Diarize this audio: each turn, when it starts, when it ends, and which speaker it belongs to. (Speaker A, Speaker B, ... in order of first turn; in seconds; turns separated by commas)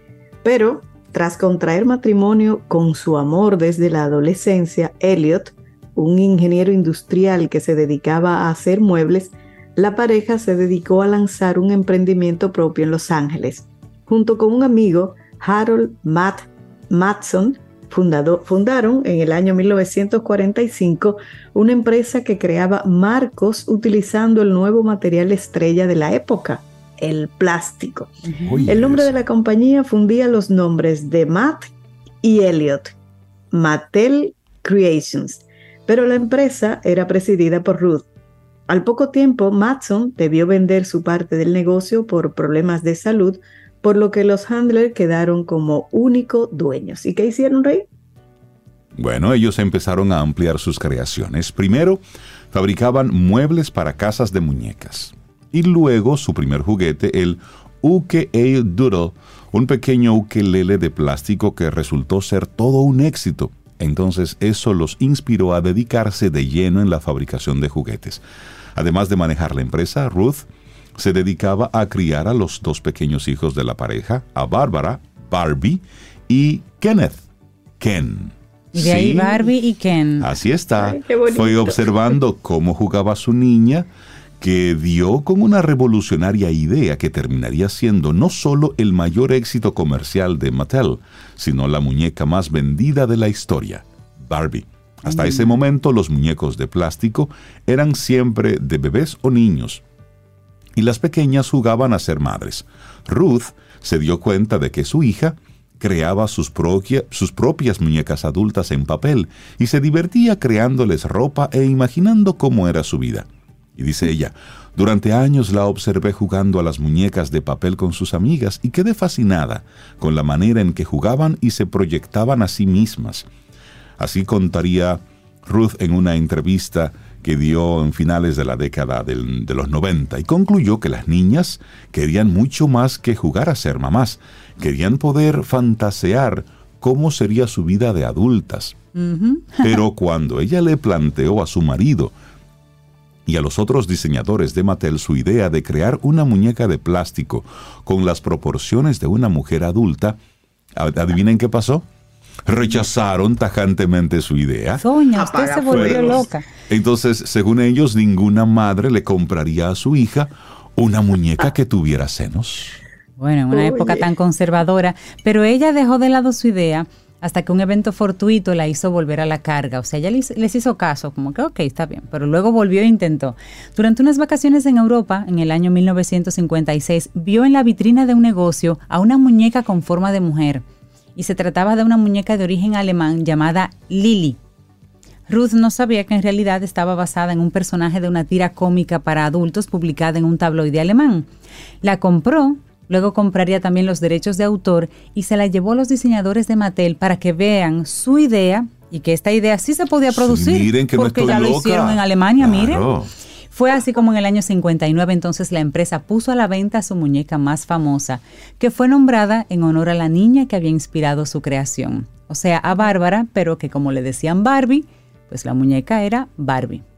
Speaker A: 0.4-28.1, Speaker B: 28.2-28.6, Speaker C: 28.4-29.2, Speaker A: 28.6-32.9, Speaker A: 33.5-38.1, Speaker A: 38.7-47.9, Speaker C: 49.0-52.0, Speaker C: 52.5-68.2, Speaker C: 68.8-77.2, Speaker C: 77.8-79.4, Speaker B: 78.7-80.3, Speaker C: 80.2-83.9, Speaker A: 80.8-82.2, Speaker C: 84.4-99.8, Speaker B: 95.1-95.5, Speaker C: 100.8-123.3, Speaker C: 124.0-138.8, Speaker B: 138.9-139.8, Speaker C: 139.6-142.1, Speaker C: 143.3-150.2, Speaker C: 150.8-151.8, Speaker C: 152.5-154.8, Speaker B: 154.8-156.4, Speaker A: 155.1-156.3, Speaker C: 155.7-162.8, Speaker B: 163.2-180.6, Speaker A: 163.5-164.1, Speaker B: 181.2-184.4, Speaker B: 185.3-191.3, Speaker B: 191.8-202.9, Speaker C: 200.1-203.1, Speaker B: 203.5-216.8